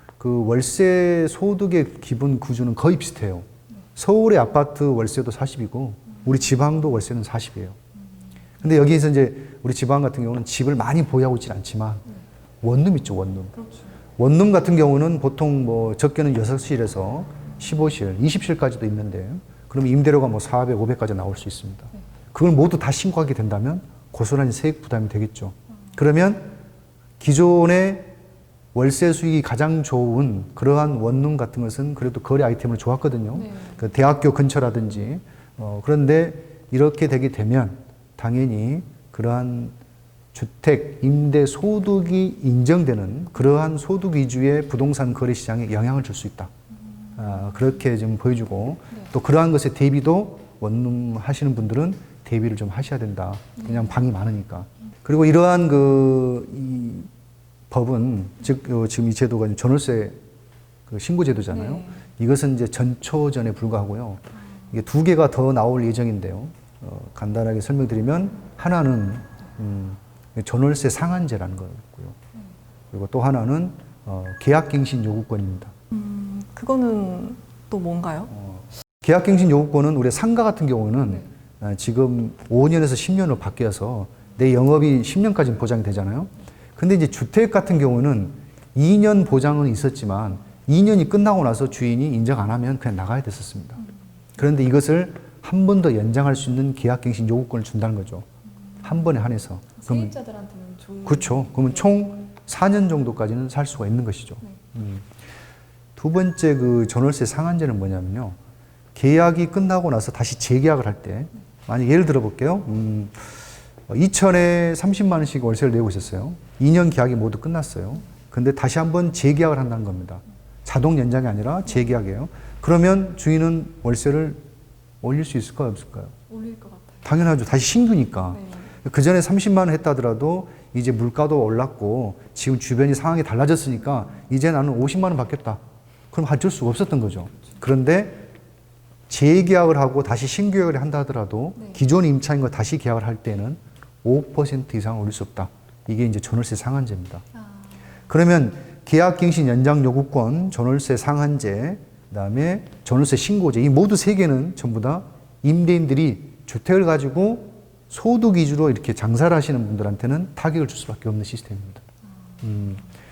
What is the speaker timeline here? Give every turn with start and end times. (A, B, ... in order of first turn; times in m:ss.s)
0:00.2-0:07.8 A
0:08.6-0:12.0 A
0:12.6-0:13.5 A
0:13.6-0:13.9 B
0:14.2-0:26.5 A
0:27.2-0:28.1 A
0:28.7-0:39.7 A
0:33.4-0:33.8 B
0:40.3-0:46.5 A
0:47.2-0:57.1 A
0:57.7-1:00.2 A
1:00.9-1:12.2 A
1:12.9-1:15.7 A
1:15.9-1:18.3 B
1:18.3-1:33.8 A
1:34.4-1:38.2 A
1:38.8-1:40.1 A
1:39.8-1:41.7 B
1:41.0-1:45.0 A
1:46.0-1:48.4 A
1:48.9-2:04.4 A
2:05.0-2:06.2 A
2:06.3-2:07.0 B
2:07.0-2:15.6 A
2:16.1-2:18.2 A
2:19.1-2:27.2 A
2:28.1-2:41.8 A
2:42.4-2:42.8 A